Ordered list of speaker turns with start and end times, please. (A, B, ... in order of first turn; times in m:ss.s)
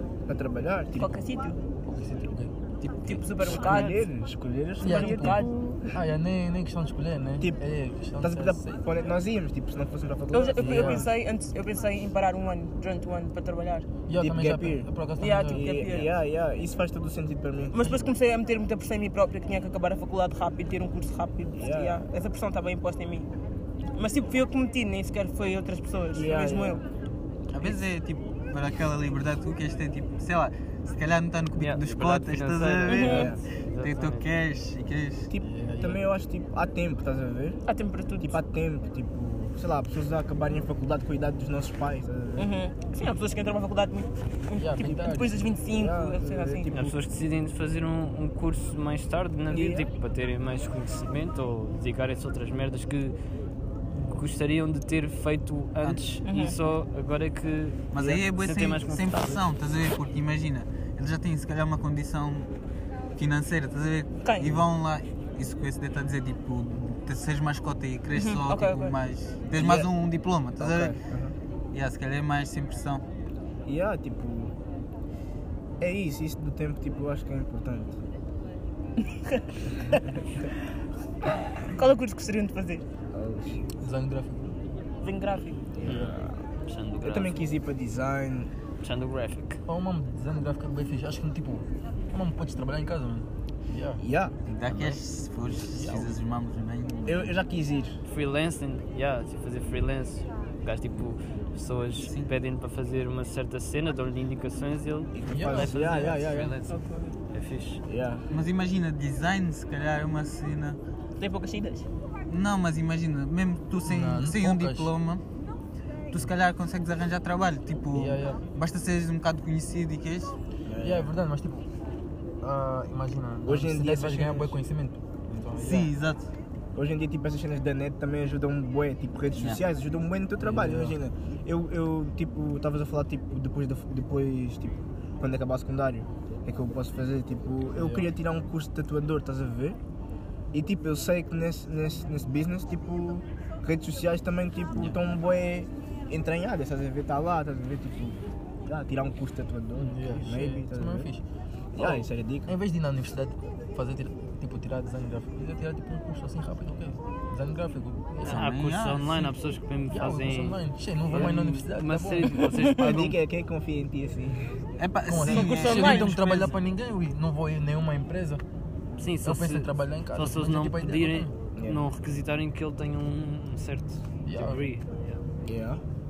0:00.3-0:01.2 A
0:01.0-0:01.6 B
0:01.8-0:02.5 C
0:02.8-0:03.1 D
0:03.0-0:04.0 B
0:03.4-0:06.0 A
0:03.6-0:03.9 E
0:04.8-0:08.8 C
0:04.8-0:05.8 B
0:08.2-0:11.1 A
0:10.3-0:13.9 B
0:10.6-0:11.0 C
0:14.1-0:15.7 C
0:14.2-0:14.9 A
0:15.2-0:16.1 B
0:15.5-0:18.1 A
0:17.7-0:23.3 B
0:21.6-0:22.0 A
0:24.0-0:26.8 B
0:26.1-0:26.8 A
0:27.5-0:33.3 D
0:31.6-0:34.2 E
0:32.9-0:33.3 B
0:33.0-0:33.4 A
0:33.8-0:35.3 D
0:35.3-0:37.6 A
0:35.4-0:36.0 C
0:37.7-0:38.4 B
0:38.2-0:42.5 A
0:42.4-0:46.6 B
0:44.5-0:45.5 C
0:45.7-0:47.0 A
0:46.7-0:53.1 E
0:49.5-0:49.8 A
0:53.9-0:59.4 E
0:56.2-0:56.5 B
0:57.9-1:02.5 D
1:03.2-1:11.0 D
1:04.2-1:04.6 B
1:08.1-1:09.0 B
1:09.5-1:09.9 A
1:10.6-1:11.3 A
1:11.7-1:13.0 D
1:13.6-1:14.5 A
1:15.8-1:18.0 A
1:21.6-1:22.8 B
1:23.1-1:23.6 A
1:23.8-1:24.5 C
1:25.0-1:25.6 B
1:25.8-1:26.4 A
1:26.6-1:27.5 E
1:27.0-1:28.5 A
1:28.8-1:29.6 E
1:29.6-1:34.0 C
1:34.0-1:34.3 A
1:34.4-1:37.3 D
1:35.7-1:36.1 C
1:37.0-1:38.0 A
1:38.1-1:46.8 E
1:42.0-1:42.3 D
1:45.1-1:46.6 A
1:45.3-1:45.7 C
1:46.7-1:47.1 B
1:47.3-1:47.8 E
1:47.9-1:48.2 A
1:48.3-1:50.8 D
1:51.2-1:51.9 B
1:52.3-1:55.2 D
1:53.8-1:54.9 C
1:56.1-2:00.3 D
1:57.9-1:58.4 C
2:00.6-2:01.1 A
2:00.8-2:01.6 C
2:02.4-2:05.9 C
2:03.4-2:04.6 A
2:05.5-2:06.3 D
2:06.7-2:19.8 A
2:10.4-2:11.0 C
2:17.8-2:18.0 C
2:20.5-2:31.1 A
2:29.8-2:31.2 C
2:31.8-2:32.5 A
2:31.8-2:38.4 C
2:38.2-2:39.3 D
2:38.2-2:40.6 E
2:39.9-2:42.5 C
2:41.1-2:43.2 E
2:42.7-2:44.6 A
2:44.8-2:46.5 D
2:45.0-2:48.4 C
2:45.2-2:46.1 B
2:49.0-2:55.2 E
2:49.2-2:51.3 C
2:51.6-2:51.8 A
2:54.2-2:54.6 C
2:55.4-2:55.8 A